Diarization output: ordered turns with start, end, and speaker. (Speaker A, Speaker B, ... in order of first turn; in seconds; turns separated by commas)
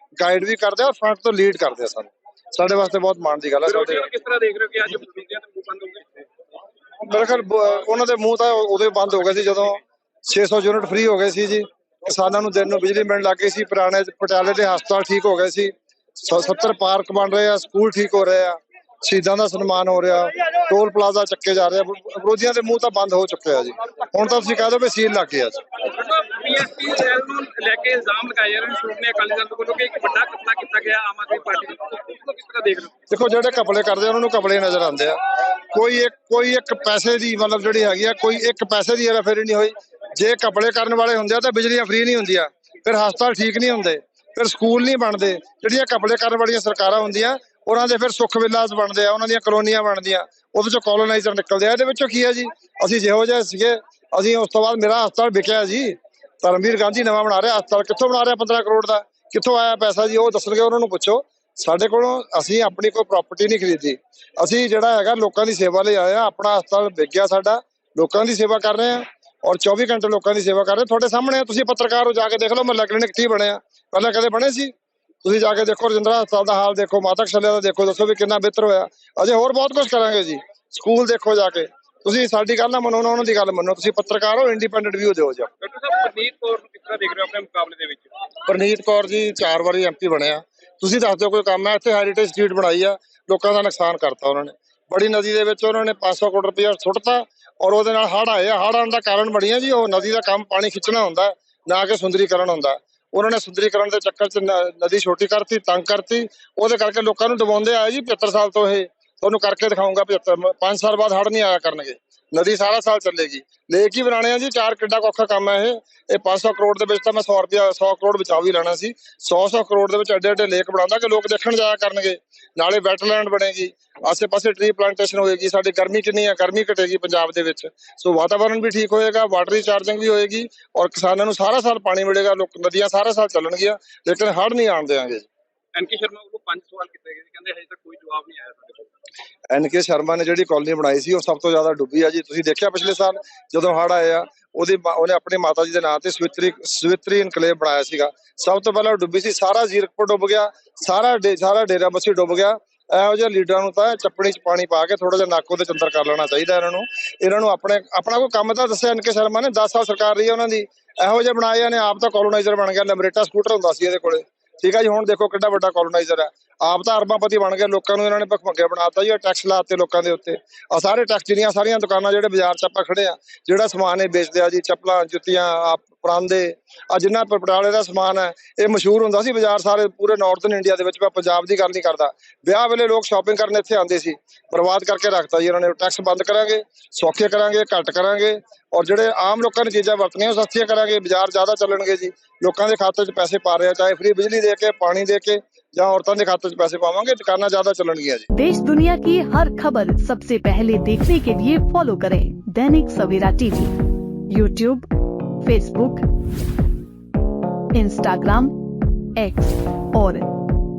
Speaker A: 0.2-4.1, Speaker B: 3.6-6.3, Speaker A: 7.0-25.6, Speaker B: 25.8-32.9, Speaker A: 33.1-74.7, Speaker A: 75.2-85.5, Speaker B: 85.6-88.1, Speaker A: 88.5-135.3, Speaker B: 135.8-138.9, Speaker A: 139.5-198.3, Speaker C: 198.3-203.7, Speaker C: 204.3-204.9, Speaker C: 205.4-206.1, Speaker C: 207.7-208.5, Speaker C: 209.2-210.2